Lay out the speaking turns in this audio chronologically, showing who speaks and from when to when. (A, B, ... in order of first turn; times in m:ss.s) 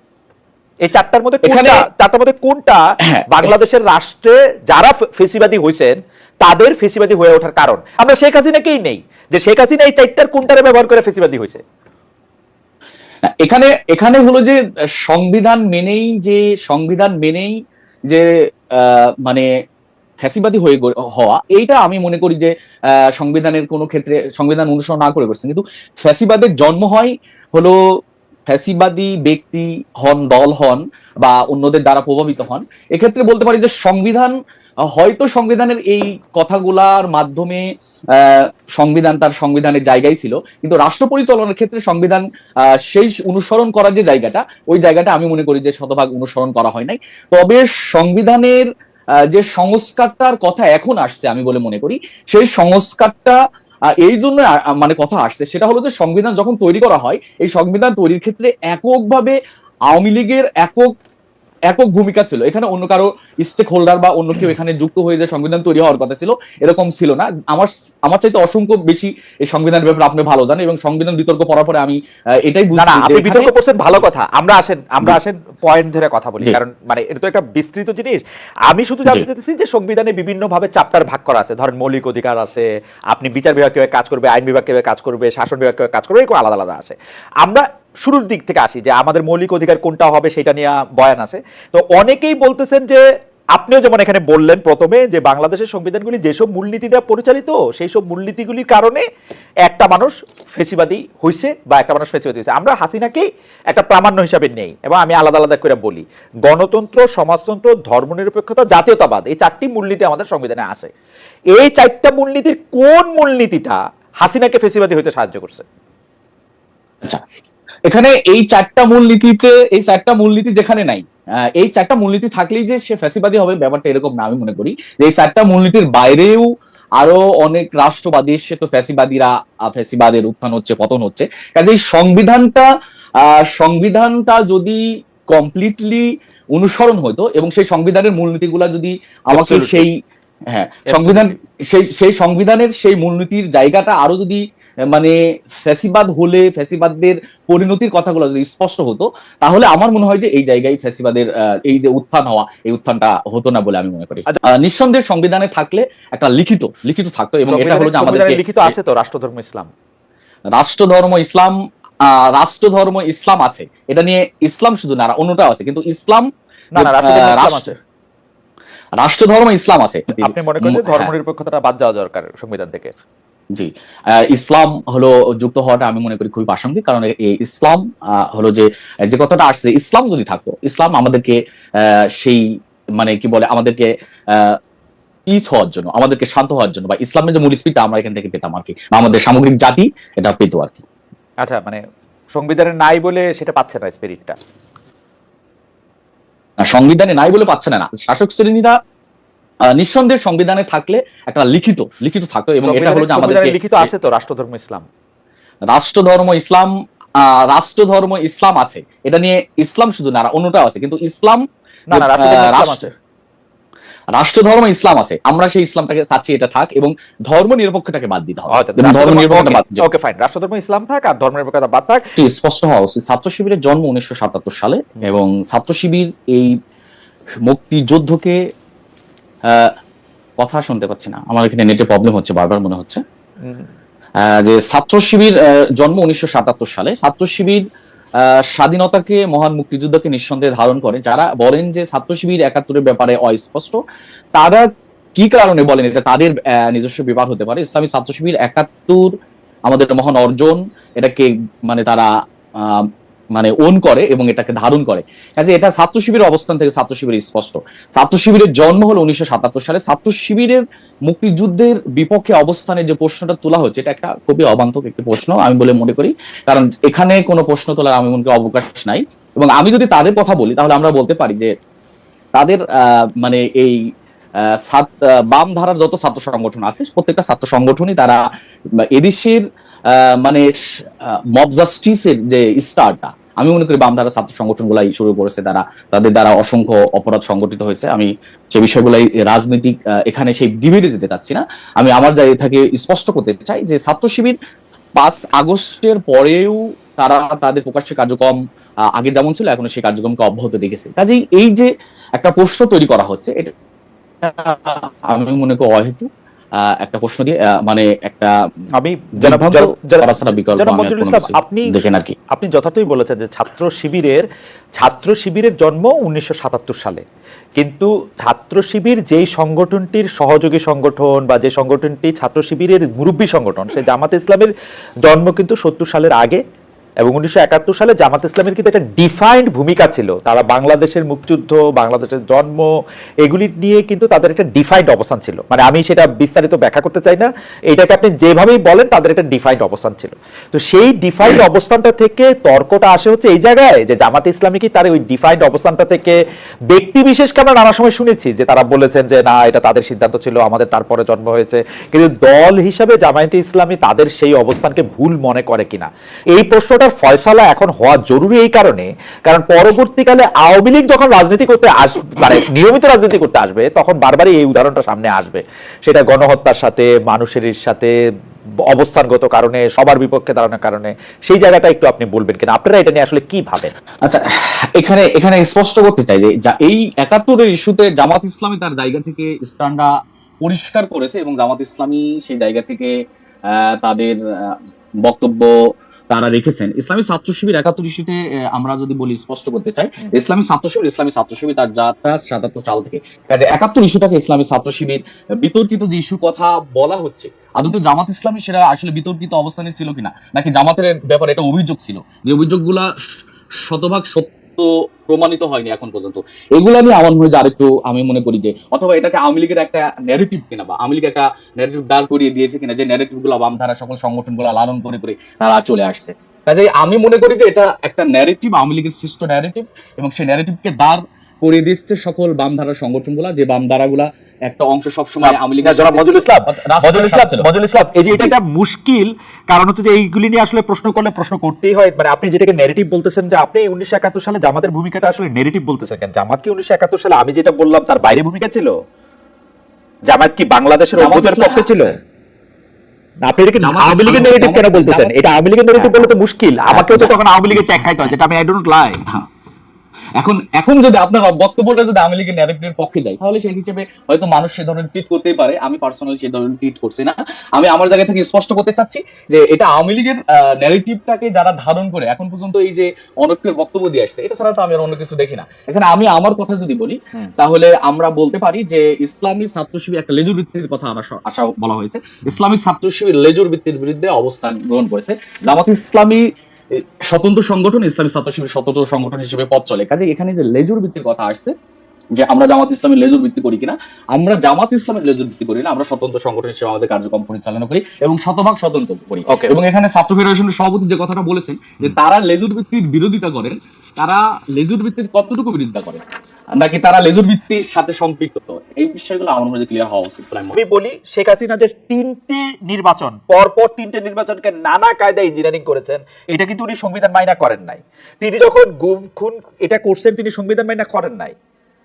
0:00.8-0:11.6 A
0:01.4-0:01.8 B
0:03.0-0:03.5 B
0:13.2-0:17.6 B
0:18.1-0:19.5 B
0:20.2-0:22.5 B
0:23.1-0:27.8 B
0:28.5-0:34.3 B
0:34.9-0:42.2 B
0:42.7-0:48.7 B
0:49.3-0:53.4 B
0:54.0-0:59.4 B
0:59.9-1:00.9 B
1:01.7-1:13.5 B
1:12.7-1:33.0 A
1:33.6-1:39.0 A
1:39.6-1:50.9 A
1:51.5-1:55.6 A
1:57.9-2:06.5 B
2:07.0-2:12.6 B
2:13.2-2:14.8 B
2:15.3-2:19.9 B
2:19.3-2:19.8 A
2:20.5-2:38.7 B
2:20.9-2:21.3 A
2:37.5-2:39.7 A
2:40.5-2:41.5 B
2:42.1-2:47.7 B
2:46.8-2:47.7 A
2:49.0-2:51.1 B
2:50.1-2:52.9 A
2:53.5-3:02.4 B
3:03.0-3:04.6 B
3:05.3-3:10.8 B
3:11.4-3:11.8 A
3:12.3-3:14.4 A
3:16.6-3:18.7 B
3:19.7-3:23.9 B
3:22.6-3:24.8 A
3:25.7-3:31.4 B
3:31.9-3:32.8 A
3:31.9-3:32.9 B
3:34.1-3:39.8 B
3:38.5-3:42.0 A
3:42.2-3:46.5 B
3:47.5-3:48.4 B
3:50.4-3:53.0 B
3:54.2-3:57.6 B
3:58.2-4:03.8 B
4:04.4-4:04.6 B
4:05.2-4:09.1 B
4:09.7-4:12.1 B
4:12.6-4:31.5 B
4:32.3-4:32.6 B
4:33.2-4:33.8 B
4:34.5-4:38.2 B
4:38.9-4:40.5 B
4:41.0-4:54.4 B
4:55.0-4:58.4 B
4:58.9-5:03.5 B
5:04.2-5:06.1 B
5:06.7-5:08.3 B
5:08.8-5:11.6 A
5:09.2-5:12.1 B
5:12.3-5:14.2 A
5:14.8-5:17.0 A
5:17.6-5:24.5 A
5:25.1-5:26.4 A
5:27.0-5:32.7 A
5:33.2-5:46.2 A
5:46.7-6:07.9 A
6:08.7-6:13.7 A
6:14.0-6:19.9 B
6:20.4-6:22.9 B
6:23.5-6:25.5 B
6:26.1-6:42.9 B
6:43.6-7:07.4 B
7:05.2-7:18.7 A
7:20.1-7:22.0 A
7:21.0-7:21.7 B
7:23.2-7:29.0 A
7:23.6-7:25.1 B
7:25.8-7:26.1 B
7:26.7-7:28.1 B
7:30.2-7:56.2 B
7:56.7-8:01.5 B
8:02.2-8:16.0 B
8:09.3-8:09.5 A
8:16.6-8:20.6 B
8:20.5-8:31.3 A